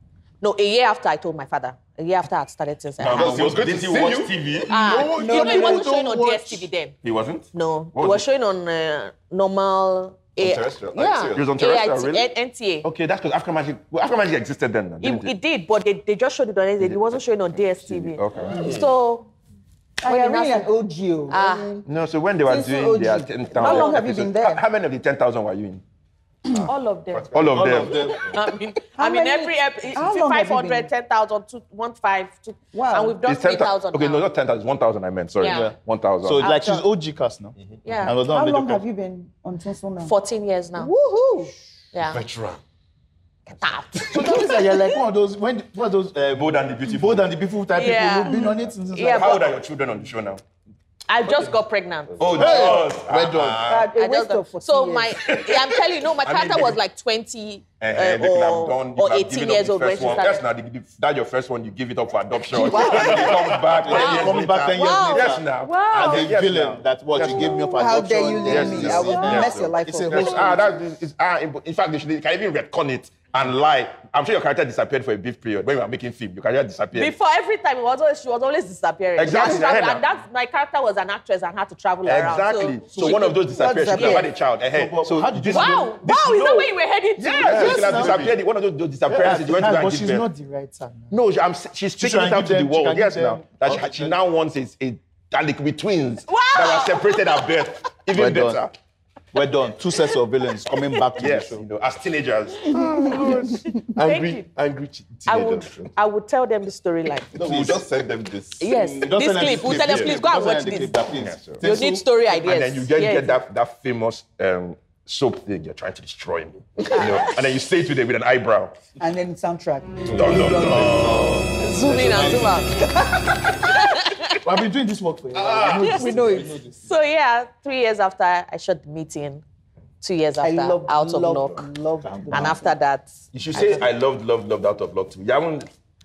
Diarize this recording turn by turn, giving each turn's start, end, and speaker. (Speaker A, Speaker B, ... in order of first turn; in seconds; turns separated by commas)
Speaker A: 0.4-3.5, Speaker B: 3.0-4.7, Speaker C: 3.1-4.3, Speaker A: 4.7-6.9, Speaker D: 4.7-6.7, Speaker E: 5.1-5.9, Speaker B: 7.0-8.2, Speaker A: 7.5-12.9, Speaker B: 10.4-12.3, Speaker B: 12.8-15.3, Speaker A: 15.0-19.3, Speaker B: 17.7-18.6, Speaker C: 18.5-18.8, Speaker E: 20.0-21.8, Speaker A: 20.0-20.7, Speaker A: 21.3-21.8, Speaker B: 21.8-25.8, Speaker E: 22.4-24.6, Speaker A: 23.6-24.0, Speaker A: 26.6-34.2, Speaker B: 27.1-28.2, Speaker D: 27.3-28.2, Speaker E: 28.9-30.9, Speaker E: 32.7-33.2, Speaker B: 33.2-36.4, Speaker A: 35.4-35.7, Speaker D: 35.5-38.8, Speaker A: 36.4-36.8, Speaker E: 36.4-36.8, Speaker A: 37.8-38.2, Speaker E: 38.1-40.1, Speaker A: 40.0-40.9, Speaker E: 40.8-41.5, Speaker A: 41.9-42.2, Speaker C: 42.1-42.6, Speaker A: 43.5-44.9, Speaker D: 44.1-49.4, Speaker B: 46.3-47.3, Speaker A: 47.7-48.4, Speaker A: 48.9-49.5, Speaker B: 49.1-50.4, Speaker A: 51.1-52.8, Speaker B: 52.2-53.9, Speaker D: 52.3-53.6, Speaker E: 53.6-55.2, Speaker A: 53.9-60.4, Speaker B: 56.2-56.8, Speaker B: 57.8-67.7, Speaker A: 62.5-63.3, Speaker E: 62.7-63.0, Speaker D: 62.7-70.7, Speaker A: 63.9-66.3, Speaker E: 67.7-70.5, Speaker B: 68.4-77.1, Speaker A: 76.9-83.3, Speaker B: 79.2-80.0, Speaker B: 82.0-86.6, Speaker D: 82.9-83.3, Speaker E: 83.0-84.3, Speaker D: 84.7-86.0, Speaker A: 85.5-88.2, Speaker D: 87.2-88.3, Speaker B: 87.2-90.2, Speaker D: 89.1-91.2, Speaker B: 91.1-98.7, Speaker D: 92.0-94.2, Speaker A: 96.3-97.4, Speaker D: 98.1-98.6, Speaker D: 99.3-101.6, Speaker B: 101.2-103.2, Speaker C: 102.7-105.9, Speaker A: 104.0-104.5, Speaker A: 105.2-107.3, Speaker C: 107.3-108.7, Speaker D: 107.3-107.8, Speaker A: 108.6-111.0, Speaker D: 108.7-112.0, Speaker C: 109.7-110.1, Speaker B: 111.1-111.7, Speaker A: 111.6-113.3, Speaker B: 112.3-118.8, Speaker A: 116.9-117.4, Speaker E: 119.0-121.3, Speaker B: 120.1-121.4, Speaker C: 120.2-121.5, Speaker D: 120.7-122.7, Speaker A: 121.6-124.4, Speaker D: 124.4-126.9, Speaker B: 125.3-125.9, Speaker E: 125.8-126.5, Speaker A: 125.8-129.4, Speaker A: 130.0-131.7, Speaker E: 130.4-132.7, Speaker D: 132.0-132.6, Speaker A: 132.3-133.2, Speaker B: 133.3-135.7, Speaker D: 133.5-133.9